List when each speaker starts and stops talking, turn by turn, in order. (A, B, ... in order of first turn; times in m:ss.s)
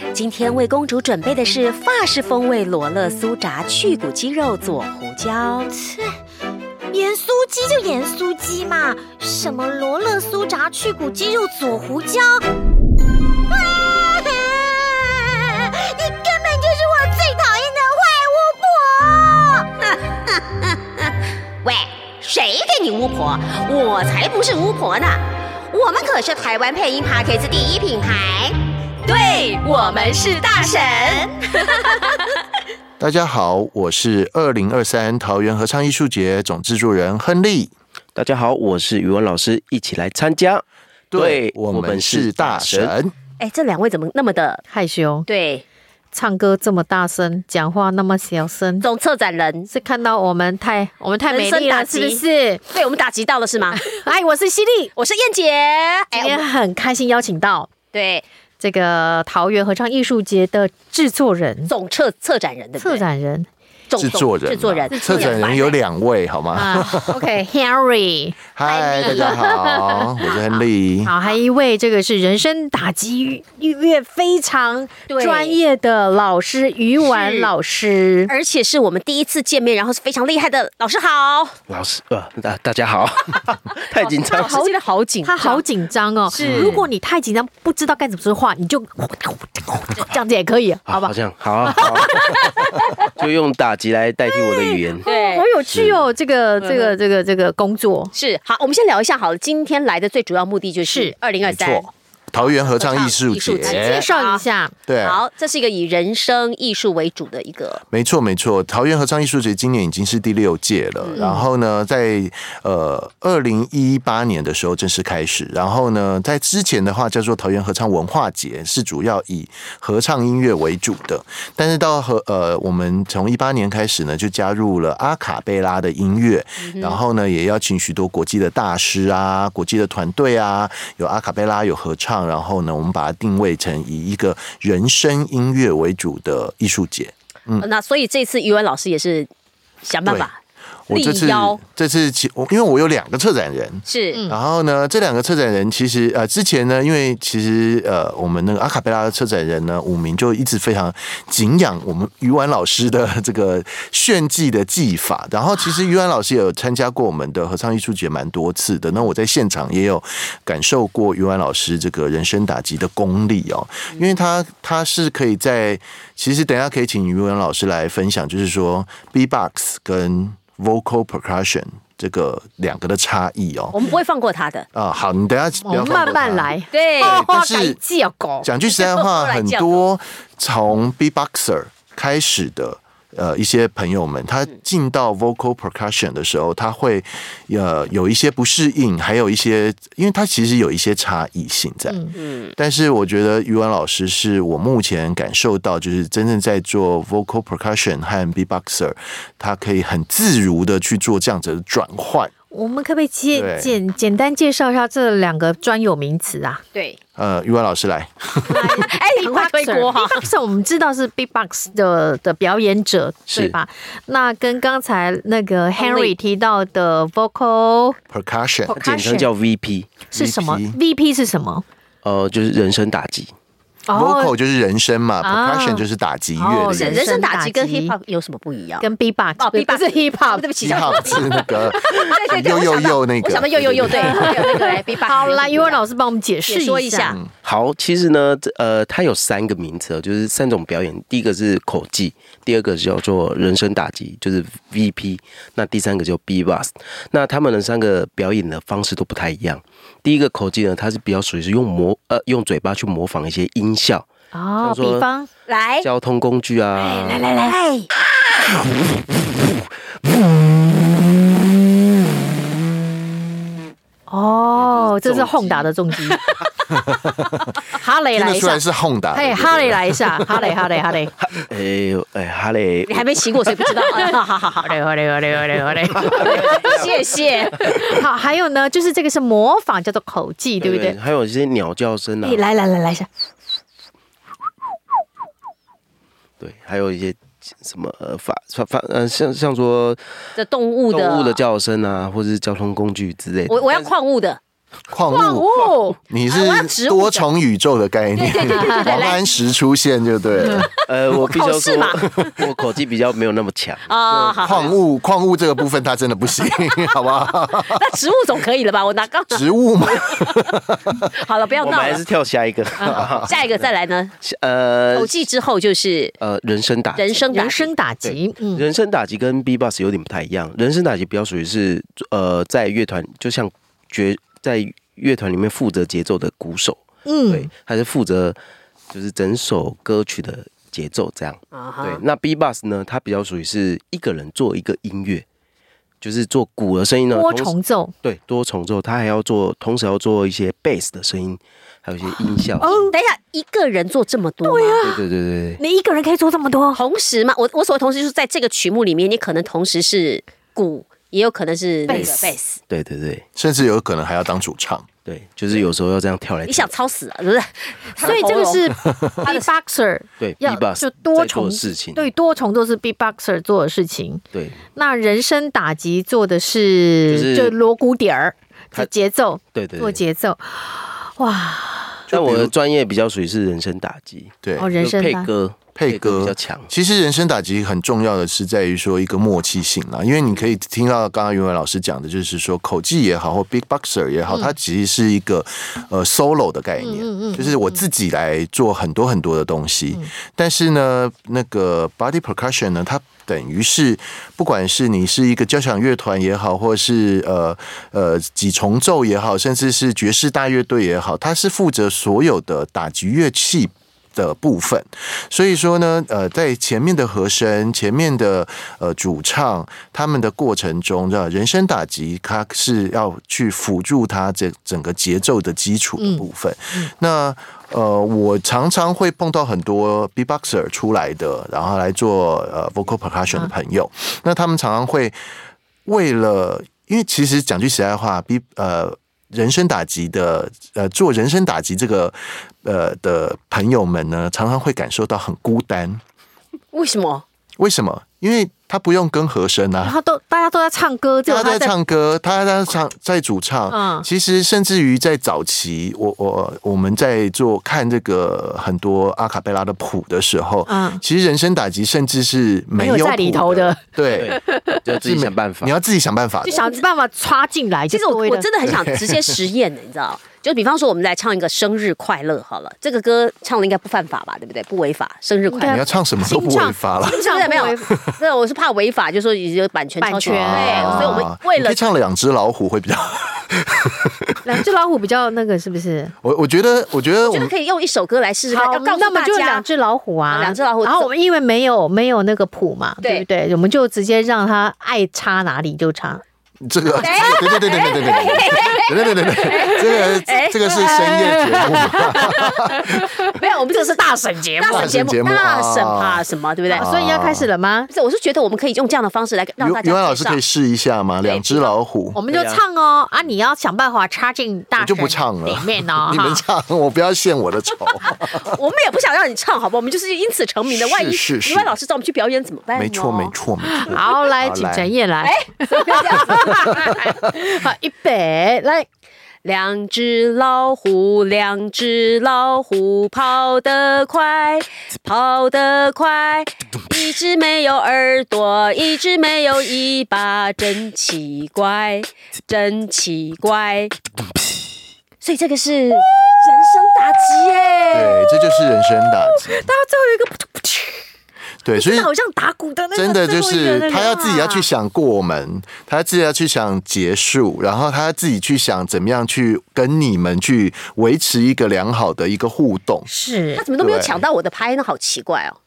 0:00.1-0:05.7 A
0:05.7-0:06.1 B
0:06.9-0:12.4 B
0:13.5-0:19.7 B
0:19.8-0:32.3 A
0:33.0-0:37.7 C
0:38.1-0:42.9 D
0:41.1-0:43.1 C
0:43.4-0:44.6 A
0:44.7-0:45.3 E
0:45.3-0:45.6 A
0:46.1-0:48.8 E
0:48.8-0:49.7 A
0:49.7-0:52.6 E
0:51.3-0:53.8 A
0:53.8-0:54.9 E
0:55.0-0:56.4 A
0:56.1-0:57.7 E
0:57.9-0:58.2 A
0:58.6-1:01.7 E
1:01.7-1:03.0 A
1:02.8-1:03.5 E
1:03.9-1:05.8 A
1:04.0-1:07.2 C
1:04.9-1:05.4 E
1:06.6-1:08.4 E
1:08.6-1:11.1 C
1:08.6-1:09.4 A
1:09.0-1:18.3 E
1:15.1-1:15.6 A
1:17.0-1:17.5 A
1:18.3-1:21.6 A
1:21.7-1:24.7 D
1:23.9-1:25.6 A
1:25.2-1:31.1 E
1:26.3-1:26.8 A
1:26.4-1:26.8 D
1:30.9-1:35.1 D
1:31.7-1:32.6 E
1:35.0-1:35.4 A
1:35.0-1:38.1 E
1:35.7-1:36.0 D
1:36.6-1:37.0 A
1:38.1-1:44.4 A
1:40.8-1:41.2 E
1:41.4-1:44.1 C
1:43.6-1:44.7 E
1:44.9-1:45.2 C
1:45.0-1:47.8 A
1:47.9-2:17.7 C
1:51.2-1:51.4 E
2:06.6-2:07.0 A
2:17.6-2:19.3 A
2:19.8-2:20.4 A
2:20.0-2:20.3 C
2:20.9-2:53.9 C
2:20.9-2:21.6 A
2:23.8-2:24.2 A
2:53.7-2:54.7 A
2:54.7-2:57.8 C
2:55.6-2:58.5 E
2:56.7-2:57.2 A
2:58.4-3:12.0 C
2:58.7-2:59.8 A
3:11.9-3:12.1 E
3:12.2-3:12.6 A
3:12.6-3:22.3 C
3:22.5-3:26.6 E
3:23.3-3:23.8 C
3:26.7-3:27.0 A
3:27.2-3:28.8 C
3:28.5-3:38.0 E
3:28.6-3:30.3 A
3:33.3-3:33.6 D
3:35.8-3:36.1 A
3:38.1-3:38.8 C
3:38.7-3:39.3 E
3:38.7-3:40.0 D
3:40.1-3:41.6 E
3:40.1-3:40.8 C
3:42.0-3:43.3 D
3:43.9-3:44.3 E
3:43.9-3:47.2 C
3:45.2-3:45.8 E
3:46.4-3:47.9 E
3:46.7-3:55.8 A
3:48.8-3:51.2 E
3:50.6-3:54.2 C
3:53.6-3:54.0 D
3:54.0-3:57.2 E
3:56.4-3:57.2 A
3:57.1-3:57.3 C
3:57.4-4:14.1 D
4:14.3-4:15.3 E
4:14.6-4:15.0 D
4:15.5-4:15.9 A
4:15.8-4:17.2 D
4:16.8-4:17.6 E
4:24.1-4:26.2 E
4:24.6-4:25.7 D
4:26.7-4:27.6 C
4:27.7-4:28.6 E
4:28.1-4:30.4 C
4:29.1-4:31.1 E
4:31.2-4:33.5 D
4:32.9-4:34.8 A
4:33.7-4:36.7 E
4:35.9-4:37.3 D
4:36.1-4:37.7 A
4:37.6-4:41.0 E
4:40.6-4:42.4 D
4:42.2-4:43.1 E
4:46.4-4:50.0 D
4:50.4-4:51.4 A
4:50.9-4:53.9 D
4:53.5-4:54.4 A
4:54.9-5:00.7 C
4:55.1-4:57.2 E
4:58.2-4:59.2 A
4:58.3-4:58.9 E
5:00.6-5:02.3 A
5:00.8-5:04.7 D
5:03.9-5:04.7 A
5:04.1-5:07.8 C
5:07.7-5:10.3 A
5:09.3-5:11.1 C
5:11.1-5:12.0 A
5:11.6-5:13.7 D
5:12.8-5:14.1 A
5:12.8-5:13.3 C
5:14.2-5:15.2 D
5:14.9-5:16.1 A
5:16.2-5:17.2 D
5:17.0-5:17.7 A
5:17.3-5:18.6 E
5:18.0-5:28.4 D
5:27.0-5:27.5 E
5:28.9-5:35.2 D
5:31.5-5:32.0 A
5:36.0-5:42.9 D
5:37.1-5:37.9 E
5:42.6-5:42.9 E
5:42.9-5:44.8 A
5:44.4-5:45.0 E
5:44.8-5:45.6 D
5:45.6-5:46.8 E
5:46.7-5:52.6 A
5:51.9-5:53.2 D
5:53.4-5:54.9 C
5:55.0-5:56.7 D
5:56.5-5:59.5 A
5:58.0-6:04.2 E
6:00.2-6:02.1 D
6:04.3-6:04.6 D
6:04.7-6:12.0 E
6:07.1-6:07.6 D
6:09.5-6:10.0 D
6:12.1-6:12.5 C
6:12.1-6:16.7 D
6:14.4-6:14.7 C
6:14.6-6:15.3 E
6:15.8-7:05.2 C
6:26.8-6:27.8 E
6:56.0-6:56.9 E
7:05.8-7:16.0 C
7:16.7-7:17.2 A
7:17.6-7:20.0 C
7:19.8-7:21.7 E
7:21.2-7:34.4 C
7:23.7-7:24.1 E
7:30.6-7:31.0 E
7:32.8-7:33.8 E
7:34.0-7:35.7 D
7:34.4-7:34.8 E
7:35.0-7:36.6 C
7:36.4-7:36.8 A
7:36.5-7:38.5 E
7:37.9-7:45.8 A
7:38.6-7:39.4 C
7:45.5-7:47.9 E
7:45.6-7:47.2 C
7:47.1-7:51.8 A
7:50.0-7:51.2 E
7:50.2-7:54.3 C
7:54.4-7:56.1 E
7:56.2-7:57.5 C
7:57.2-7:59.6 A
7:58.5-8:06.2 E
8:00.3-8:01.1 A
8:06.6-8:13.0 C
8:06.9-8:07.5 E
8:07.0-8:12.4 A
8:09.7-8:10.0 E
8:10.8-8:15.0 E
8:13.3-8:16.8 A
8:14.7-8:17.5 C
8:16.7-8:17.9 E
8:17.9-8:20.4 A
8:19.6-8:22.2 C
8:21.2-8:21.7 A
8:22.1-8:26.4 E
8:22.3-8:22.6 D
8:24.8-8:28.5 C
8:28.2-8:33.3 A
8:30.7-8:31.8 C
8:32.7-8:34.9 C
8:33.7-8:38.9 E
8:35.2-8:37.0 A
8:39.4-8:54.0 A
8:55.2-8:58.2 A
8:57.9-8:59.6 C
8:58.0-9:01.0 E
9:01.6-9:02.1 C
9:01.8-9:04.7 E
9:03.0-9:13.1 C
9:13.1-9:13.6 E
9:13.6-9:15.6 A
9:13.8-9:14.2 C